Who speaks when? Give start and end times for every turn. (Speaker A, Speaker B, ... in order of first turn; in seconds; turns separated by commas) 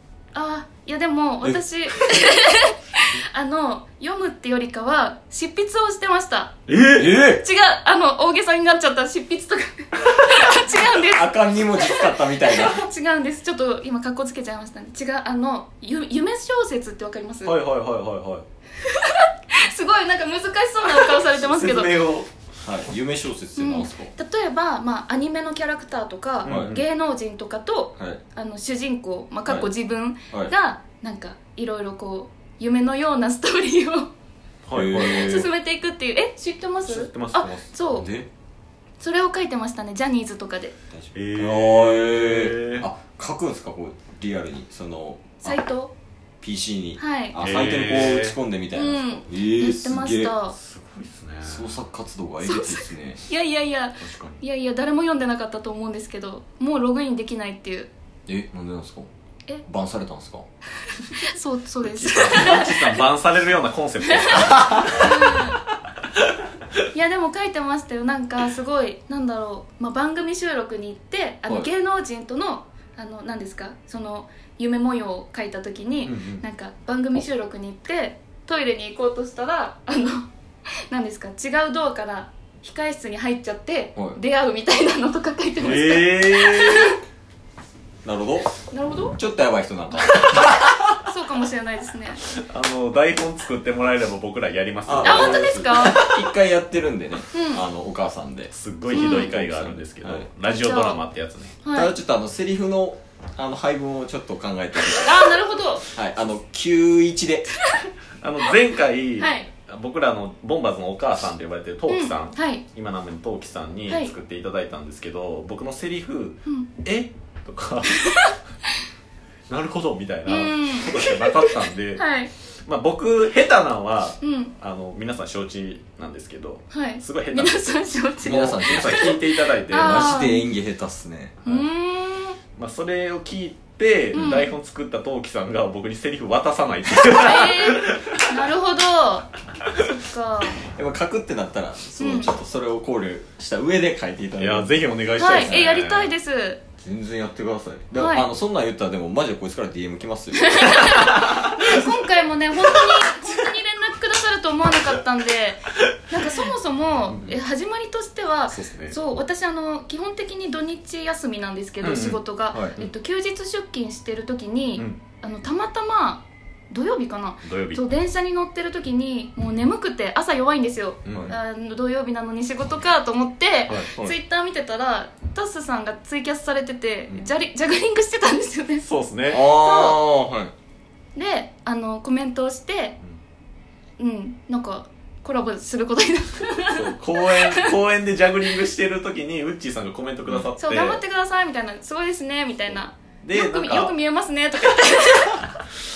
Speaker A: 0.3-6.5, Speaker B: 6.7-7.3, Speaker C: 6.9-7.4, Speaker A: 7.3-17.6, Speaker C: 10.7-12.8, Speaker B: 17.4-18.4, Speaker A: 18.8-22.0, Speaker B: 20.9-22.3, Speaker C: 22.6-24.1, Speaker A: 23.6-34.1, Speaker B: 26.4-26.8, Speaker C: 26.5-26.8, Speaker B: 34.6-35.5, Speaker C: 34.7-35.5, Speaker A: 34.9-38.1, Speaker B: 36.8-37.7, Speaker C: 37.9-38.3, Speaker A: 39.0-40.8, Speaker C: 40.9-45.6, Speaker B: 41.1-42.9, Speaker A: 45.4-45.9, Speaker C: 46.4-50.3, Speaker A: 47.0-47.4, Speaker B: 47.4-48.4, Speaker A: 48.7-50.5, Speaker B: 50.5-51.7, Speaker C: 51.4-53.2, Speaker A: 52.4-57.9, Speaker B: 54.0-54.4, Speaker C: 58.3-59.1, Speaker C: 59.7-60.4, Speaker A: 60.9-63.0, Speaker B: 61.8-65.5, Speaker A: 64.1-65.6, Speaker C: 64.6-64.9, Speaker A: 66.9-80.3, Speaker B: 76.0-76.4, Speaker A: 80.9-87.0, Speaker B: 85.6-87.0, Speaker C: 88.0-88.5, Speaker A: 88.7-89.2, Speaker C: 89.1-90.7, Speaker A: 90.9-92.2, Speaker B: 92.4-95.9, Speaker C: 94.8-100.3, Speaker A: 95.0-96.2, Speaker A: 97.3-97.7, Speaker B: 98.5-101.6, Speaker A: 98.9-99.3, Speaker A: 100.4-101.0, Speaker A: 101.6-101.9, Speaker C: 101.7-105.4, Speaker A: 104.9-105.9, Speaker C: 105.9-107.7, Speaker B: 108.2-118.3, Speaker A: 109.2-109.5, Speaker A: 111.9-112.6, Speaker A: 118.0-118.3, Speaker B: 119.5-122.0, Speaker A: 120.2-122.3, Speaker B: 122.7-130.0, Speaker A: 124.2-124.5, Speaker A: 126.7-130.5, Speaker C: 128.2-131.6, Speaker A: 131.4-132.4, Speaker B: 132.6-138.5, Speaker A: 134.1-134.5, Speaker A: 137.2-140.6, Speaker C: 140.6-145.8, Speaker A: 142.0-142.3, Speaker B: 144.4-146.1, Speaker A: 145.2-146.6, Speaker C: 146.8-151.0, Speaker A: 147.9-148.3, Speaker A: 150.3-180.0, Speaker B: 150.8-151.5, Speaker B: 157.1-157.3, Speaker B: 158.5-159.0, Speaker B: 161.8-162.2, Speaker B: 167.4-167.8, Speaker B: 171.1-171.3, Speaker C: 171.1-171.3, Speaker B: 178.8-179.4, Speaker C: 179.3-180.5, Speaker A: 181.1-183.0, Speaker A: 184.0-187.7, Speaker B: 186.7-191.0, Speaker A: 190.6-195.6, Speaker B: 193.2-193.9